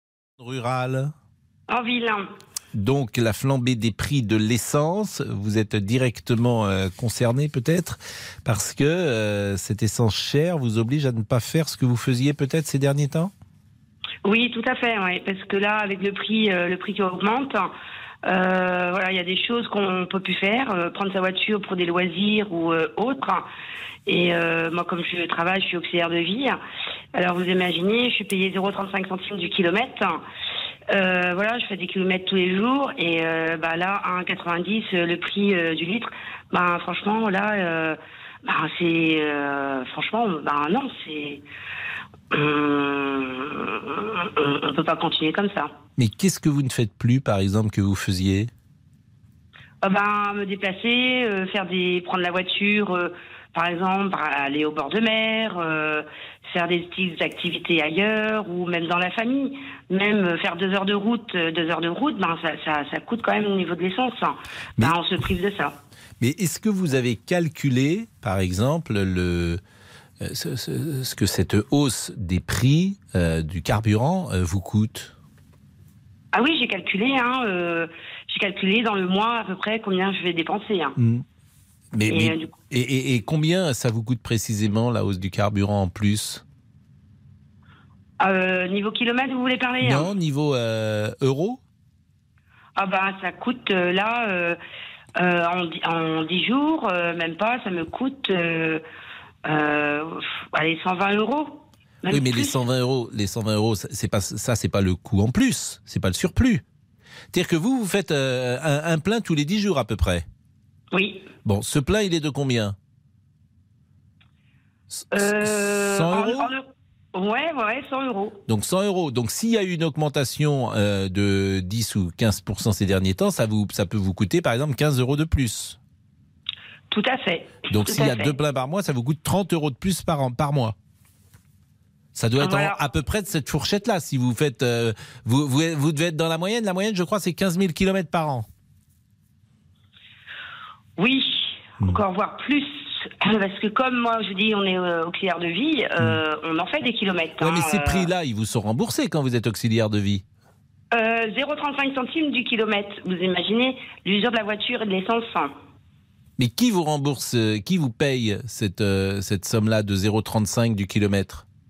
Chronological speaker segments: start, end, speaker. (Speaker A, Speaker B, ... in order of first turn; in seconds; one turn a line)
Speaker A: 0.4-1.1
Speaker B: 1.7-2.3
Speaker A: 2.7-13.3
Speaker B: 14.2-17.7
Speaker B: 18.2-23.5
Speaker B: 24.1-26.6
Speaker B: 27.1-30.2
Speaker B: 30.9-41.4
Speaker B: 42.3-45.7
Speaker A: 46.0-48.5
Speaker B: 49.8-65.8
Speaker A: 66.2-69.6
Speaker A: 70.2-75.1
Speaker B: 76.3-81.0
Speaker A: 81.0-81.2
Speaker A: 81.9-86.4
Speaker B: 82.1-82.5
Speaker B: 88.2-90.1
Speaker A: 89.8-91.6
Speaker B: 92.8-94.6
Speaker B: 95.2-98.8
Speaker B: 99.5-102.6
Speaker A: 102.1-106.6
Speaker A: 107.3-110.2
Speaker B: 110.9-111.3
Speaker A: 111.5-112.8
Speaker A: 115.0-116.5
Speaker B: 115.1-118.4
Speaker A: 118.5-125.8
Speaker B: 126.9-128.4
Speaker A: 127.7-130.8
Speaker A: 132.2-138.5
Speaker B: 132.4-132.8
Speaker B: 141.0-148.1
Speaker A: 147.4-150.2
Speaker B: 150.9-155.6
Speaker A: 156.4-161.4